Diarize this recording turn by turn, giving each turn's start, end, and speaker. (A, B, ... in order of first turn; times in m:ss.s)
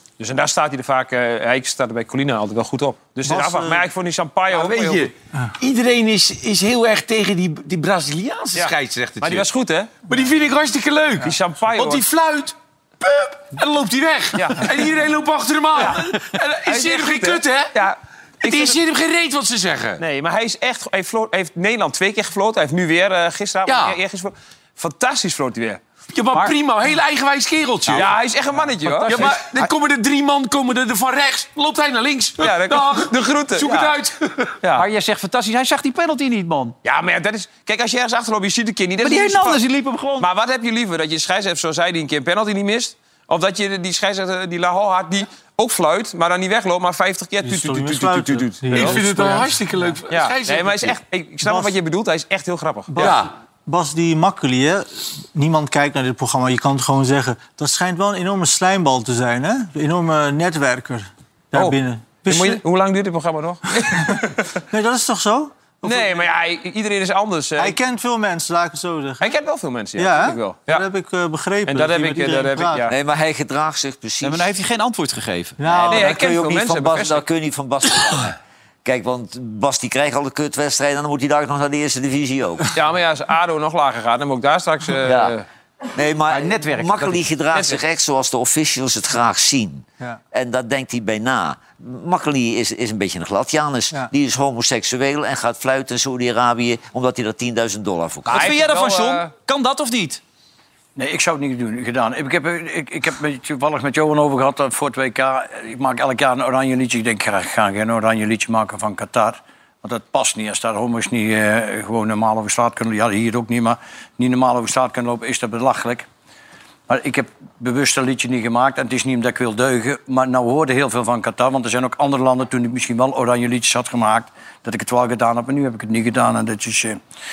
0:00.2-0:05.1 A
0:03.2-0:03.8 B
0:04.5-0:09.5 C
0:08.5-0:10.1 A
0:10.1-0:17.7 C
0:11.2-0:12.1 A
0:14.3-0:15.0 A
0:15.8-0:18.8 A
0:18.4-0:20.0 C
0:20.0-0:25.8 A
0:23.6-0:24.0 C
0:26.1-0:28.1 C
0:27.9-0:29.4 A
0:28.8-0:29.7 D
0:29.0-0:34.6 C
0:32.4-0:33.8 A
0:33.6-0:33.9 D
0:34.7-0:36.7 D
0:36.8-0:39.6 A
0:39.0-0:40.3 D
0:40.2-0:49.1 A
0:47.4-0:49.9 B
0:48.7-0:51.0 C
0:50.1-0:53.2 A
0:51.4-0:51.7 B
0:52.9-1:02.6 B
0:53.0-0:53.3 C
1:01.5-1:04.5 A
1:03.8-1:06.3 B
1:05.8-1:07.8 A
1:07.6-1:09.3 B
1:09.2-1:10.8 A
1:10.0-1:12.8 B
1:11.7-1:12.9 A
1:12.9-1:14.6 E
1:14.2-1:15.6 D
1:15.6-1:16.1 B
1:15.6-1:22.7 E
1:15.9-1:17.2 A
1:22.7-1:25.4 A
1:25.0-1:25.3 E
1:25.9-1:38.6 E
1:26.3-1:27.2 D
1:27.5-1:27.8 A
1:38.2-1:40.2 D
1:38.3-1:39.3 A
1:41.0-1:56.1 F
1:56.9-2:07.0 F